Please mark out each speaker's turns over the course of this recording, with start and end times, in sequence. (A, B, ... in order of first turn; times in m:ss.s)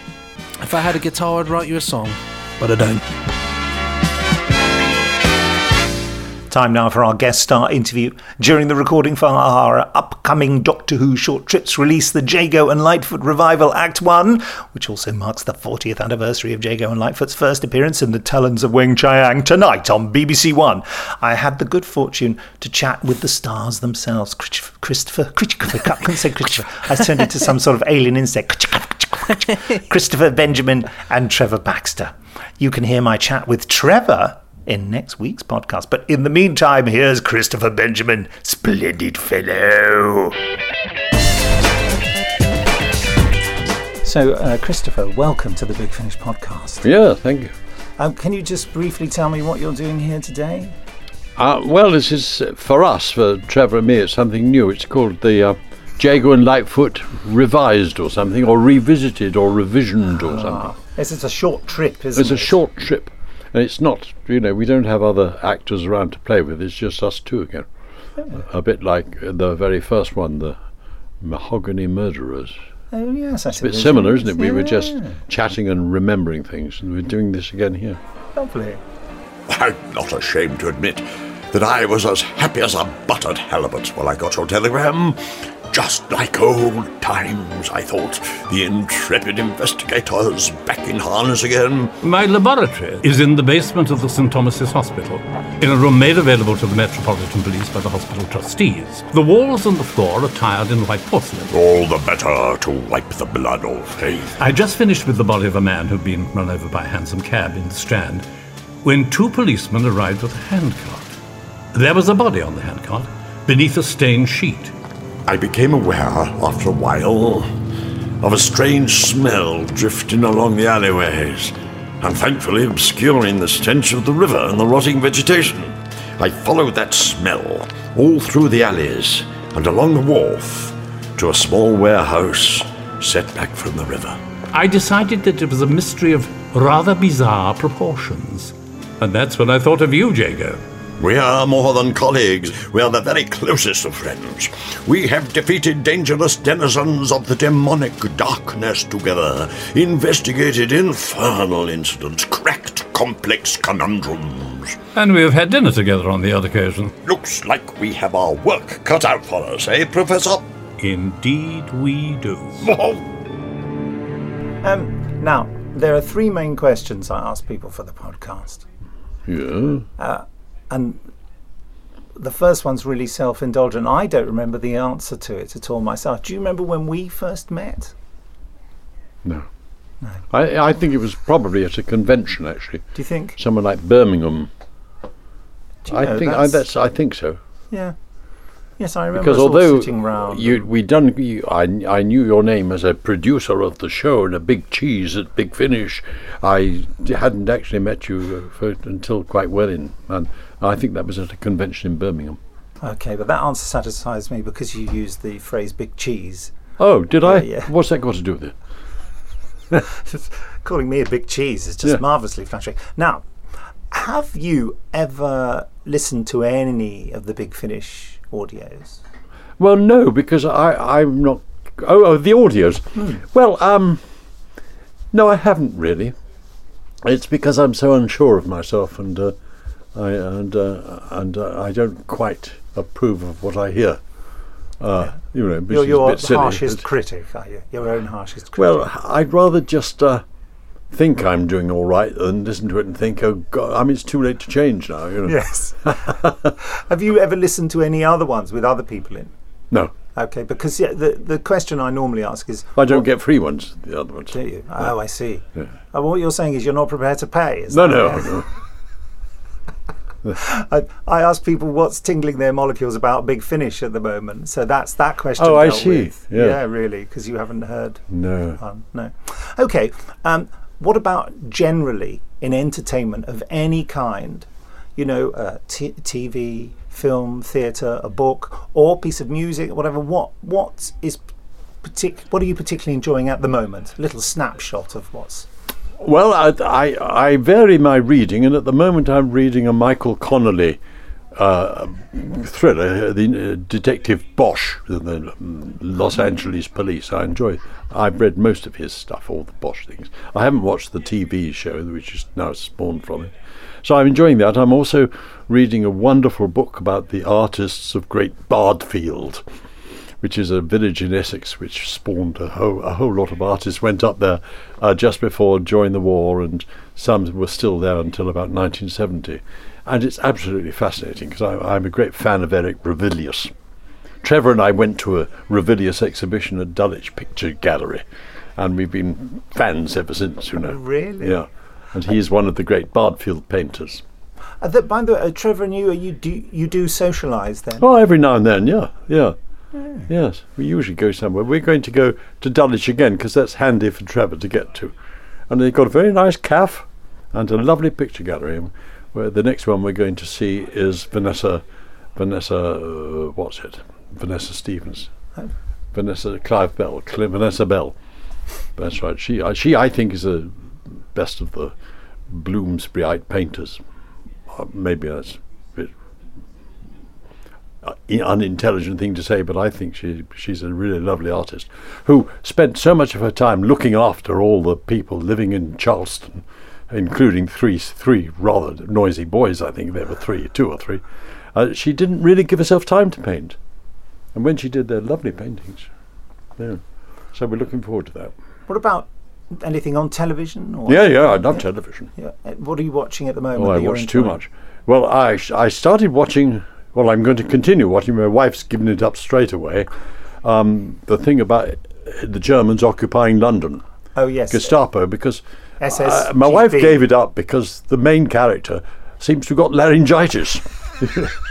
0:00.6-0:03.1 A
0:06.5-0:40.4 B
0:44.0-0:46.8 B
0:46.8-0:47.5 C
0:48.0-0:50.7 B
0:51.4-1:00.8 C
1:00.2-1:02.5 B
1:02.1-1:07.7 C
1:08.3-1:10.6 C
1:11.2-1:12.5 C
1:12.9-1:15.2 B
1:13.6-1:18.0 C
1:18.3-1:18.8 B
1:19.5-1:25.2 D
1:25.7-1:31.9 D
1:32.0-1:41.5 E
1:41.5-1:44.3 D
1:44.4-1:48.2 E
1:48.8-1:51.1 E
1:51.7-1:54.7 E
1:55.3-1:57.5 D
1:58.2-2:14.2 D
2:14.5-2:20.6 E
2:21.0-2:34.8 D
2:34.9-2:36.9 E
2:37.0-2:40.5 D
2:40.8-2:42.6 E
2:42.7-2:43.0 D
2:44.6-2:48.6 B
2:49.2-2:49.9 C
2:50.0-2:51.0 B
2:52.2-2:57.9 B
3:00.3-3:04.5 C
3:02.9-3:03.4 B
3:05.8-3:06.6 B
3:05.9-3:07.4 C
3:08.8-3:10.7 B
3:09.1-3:22.4 C
3:22.8-3:26.6 B
3:26.8-3:28.5 C
3:27.2-3:27.7 B
3:29.9-3:33.3 B
3:33.9-3:39.0 B
3:39.6-3:44.1 C
3:45.1-3:46.1 C
3:47.0-3:49.3 C
3:49.9-3:54.0 C
3:54.8-3:56.8 C
3:55.7-3:58.9 B
3:58.6-4:00.2 C
4:00.9-4:05.4 C
4:05.2-4:09.3 B
4:05.9-4:06.4 C
4:10.1-4:13.1 B
4:12.8-4:14.9 C
4:14.3-4:18.4 B
4:17.7-4:18.5 C
4:20.3-4:28.0 B
4:25.4-4:26.6 C
4:28.1-4:28.6 C
4:28.6-4:41.3 B
4:41.8-4:45.5 B
4:46.0-4:50.8 C
4:51.3-5:09.4 C
5:10.2-5:23.5 C
5:24.2-5:28.0 C
5:28.6-5:34.0 C
5:30.6-5:31.4 B
5:34.6-5:37.8 B
5:37.8-5:39.3 C
5:40.1-5:44.9 C
5:45.5-5:51.6 C
5:52.1-5:55.1 C
5:55.9-5:58.0 C
5:58.7-6:01.7 C
6:02.3-6:03.8 C
6:04.5-6:05.9 C
6:07.8-6:23.6 C
6:24.3-6:25.9 C
6:26.6-6:28.3 C
6:28.7-6:34.4 B
6:30.8-6:32.1 C
6:33.5-6:39.9 C
6:40.4-6:43.8 C
6:44.1-6:44.8 B
6:44.5-6:51.3 C
6:45.8-6:47.0 B